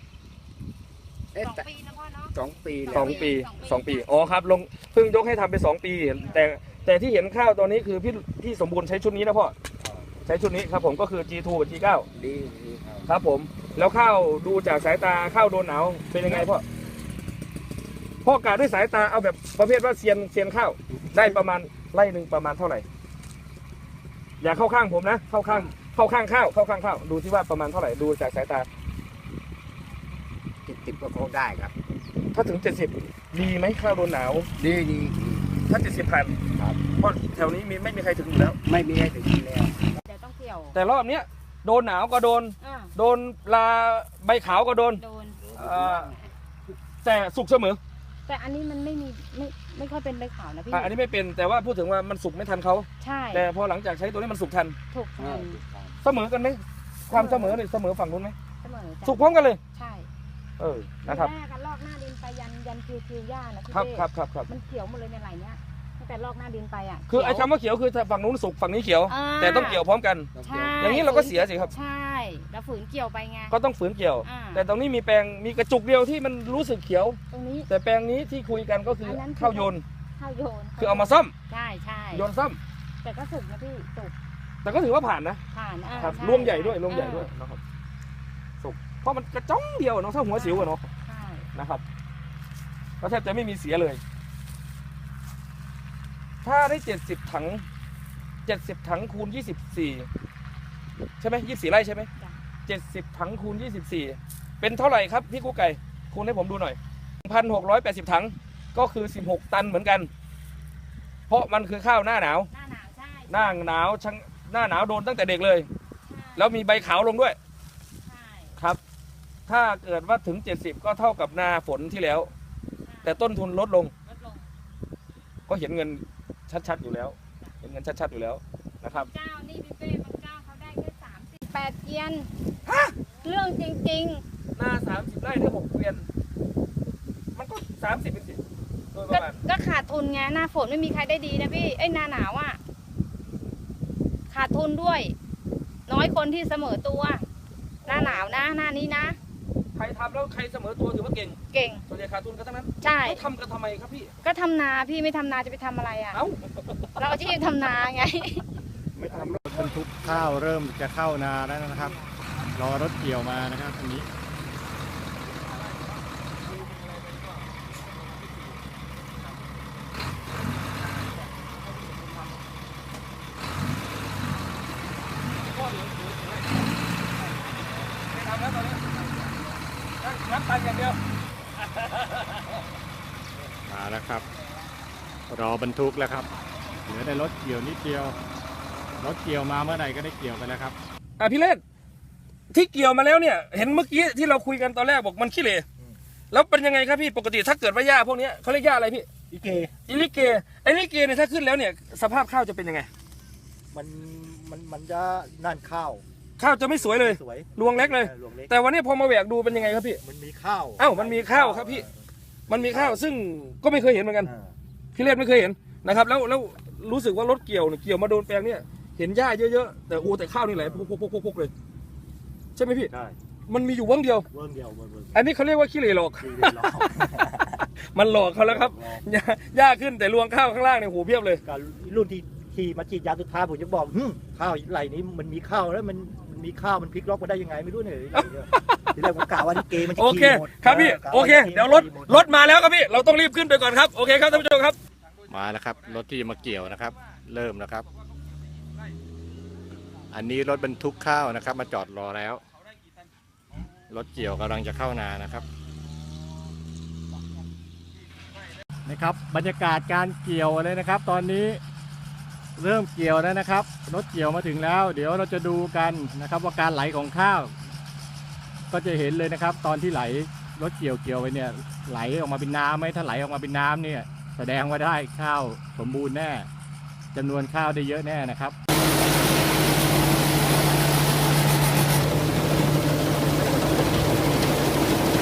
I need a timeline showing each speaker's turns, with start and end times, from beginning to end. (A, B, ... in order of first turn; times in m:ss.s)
0:01.3-0:04.1 A
0:02.4-0:03.0 B
0:02.9-0:09.6 C
0:09.8-0:10.1 D
0:10.2-0:12.1 C
0:12.2-0:12.6 B
0:12.6-0:13.1 D
0:13.1-0:16.6 C
0:18.2-0:22.9 C
0:24.4-0:28.7 C
0:30.7-0:31.7 B
0:32.3-0:34.5 C
0:35.7-0:36.4 C
0:37.0-0:38.6 C
0:38.9-0:39.6 B
0:40.0-0:40.8 A
0:40.7-0:45.0 C
0:42.6-0:42.9 A
0:45.0-0:45.4 A
0:45.5-0:46.1 C
0:47.0-0:47.8 C
0:48.3-0:50.9 A
0:50.7-0:54.8 C
0:53.0-0:53.5 A
0:54.9-0:55.6 A
0:55.2-0:56.0 D
0:56.0-0:58.4 C
0:57.1-0:57.6 A
0:58.6-1:00.1 A
0:59.0-0:59.6 C
1:00.6-1:01.3 C
1:01.1-1:07.5 A
1:03.7-1:04.5 C
1:07.1-1:11.7 C
1:09.1-1:09.8 A
1:10.4-1:13.6 A
1:13.5-1:19.8 C
1:14.2-1:14.7 A
1:17.3-1:17.7 A
1:19.0-1:22.3 A
1:20.8-1:21.3 C
1:22.1-1:22.6 C
1:23.0-1:24.1 A
1:24.6-1:25.4 C
1:25.5-1:27.3 A
1:26.0-1:27.6 C
1:28.6-1:30.9 C
1:30.3-1:31.5 A
1:31.6-1:31.8 C
1:33.0-1:34.0 C
1:36.4-1:37.6 C
1:38.5-1:40.1 C
1:41.2-1:42.1 C
1:42.7-1:50.1 C
1:51.3-1:52.5 C
1:52.5-1:53.6 A
1:53.3-1:55.7 C
1:56.0-1:56.9 A
1:56.4-1:57.4 C
1:58.0-1:58.6 A
1:59.5-2:02.3 C
2:02.8-2:03.3 A
2:03.0-2:03.9 C
2:04.1-2:04.4 A
2:05.5-2:09.1 C
2:08.9-2:12.3 A
2:12.7-2:13.0 C
2:13.2-2:14.2 A
2:14.6-2:16.1 C
2:17.4-2:18.4 C
2:18.9-2:19.4 C
2:19.1-2:22.6 A
2:24.3-2:25.2 A
2:25.9-2:27.3 A
2:27.8-2:28.4 C
2:27.8-2:29.2 A
2:29.8-2:34.1 C
2:31.5-2:31.8 A
2:32.8-2:33.3 A
2:34.2-2:36.2 A
2:36.1-2:37.1 C
2:37.0-2:38.4 A
2:39.0-2:40.3 D
2:39.1-2:39.4 C
2:39.5-2:42.0 E
2:42.5-2:44.1 E
2:45.3-2:48.6 C
2:50.3-2:52.3 C
2:55.4-2:56.7 C
2:58.1-2:58.8 C
3:00.0-3:01.0 C
3:01.6-3:02.6 C
3:03.7-3:04.2 E
3:05.3-3:06.3 E
3:06.8-3:08.2 E
3:09.0-3:10.8 E
3:11.2-3:11.6 C
3:12.5-3:15.6 C
3:16.3-3:19.1 C
3:19.3-3:19.7 D
3:19.9-3:22.9 C
3:23.7-3:26.0 D
3:26.4-3:30.0 C
3:26.8-3:28.6 D
3:29.5-3:32.0 D
3:30.8-3:31.9 C
3:32.5-3:34.3 C
3:32.5-3:33.0 D
3:34.2-3:34.6 D
3:35.0-3:41.5 C
3:40.6-3:40.9 D
3:42.6-3:42.9 C
3:42.9-3:43.2 D
3:43.5-3:44.3 C
3:44.3-3:45.3 D
3:45.1-3:51.4 C
3:46.2-3:47.6 D
3:48.4-3:49.0 D
3:51.4-4:02.3 D
3:58.1-3:58.8 C
3:59.6-4:04.8 C
4:05.3-4:07.8 E
4:07.9-4:09.0 C
4:10.1-4:12.4 E
4:13.9-4:15.5 E
4:18.9-4:21.6 E
4:22.6-4:27.5 E
4:28.7-4:36.5 E
4:37.1-4:38.6 E